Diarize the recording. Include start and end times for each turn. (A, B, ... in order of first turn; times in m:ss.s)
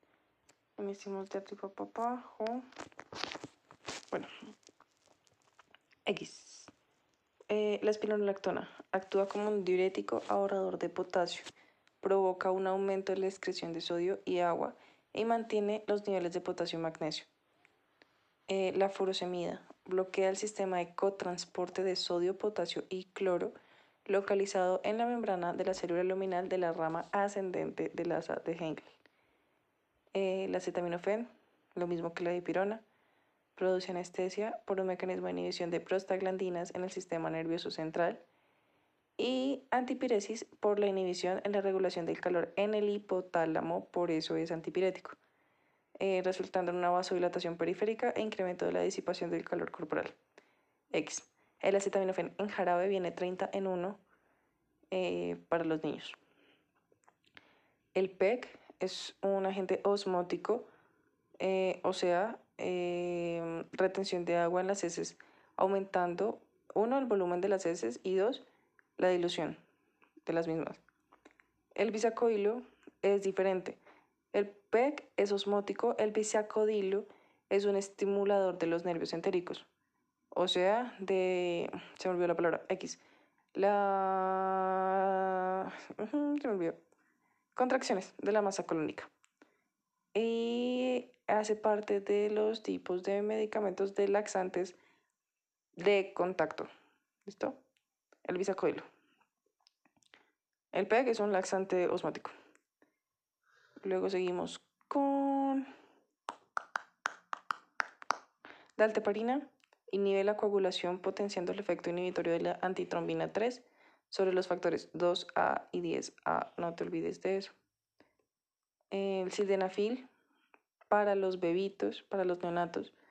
0:00.8-0:02.6 A
0:06.1-0:06.7 A
0:07.5-0:11.5 A
0:12.0-0:17.3 A
0:18.5-0:23.5 A
0:24.0-0:28.9 A
0:30.1-0:32.8 A
0:33.5-0:38.2 A
0:39.2-0:45.2 A
0:46.0-0:50.1 A
0:50.9-0:54.0 A
0:54.9-0:56.2 A
0:57.9-1:00.6 A
1:01.4-1:08.4 A
1:09.0-1:09.6 A
1:10.2-1:10.8 A
1:11.8-1:13.8 A
1:14.3-1:19.7 A
1:20.3-1:23.0 A
1:23.5-1:26.8 A
1:27.5-1:29.1 A
1:30.1-1:34.8 A
1:35.8-1:36.7 A
1:37.2-1:37.6 A
1:38.2-1:38.8 A
1:40.7-1:42.3 A
1:43.8-1:45.7 A
1:48.8-1:57.5 A
1:58.9-2:00.0 A
2:00.9-2:02.9 A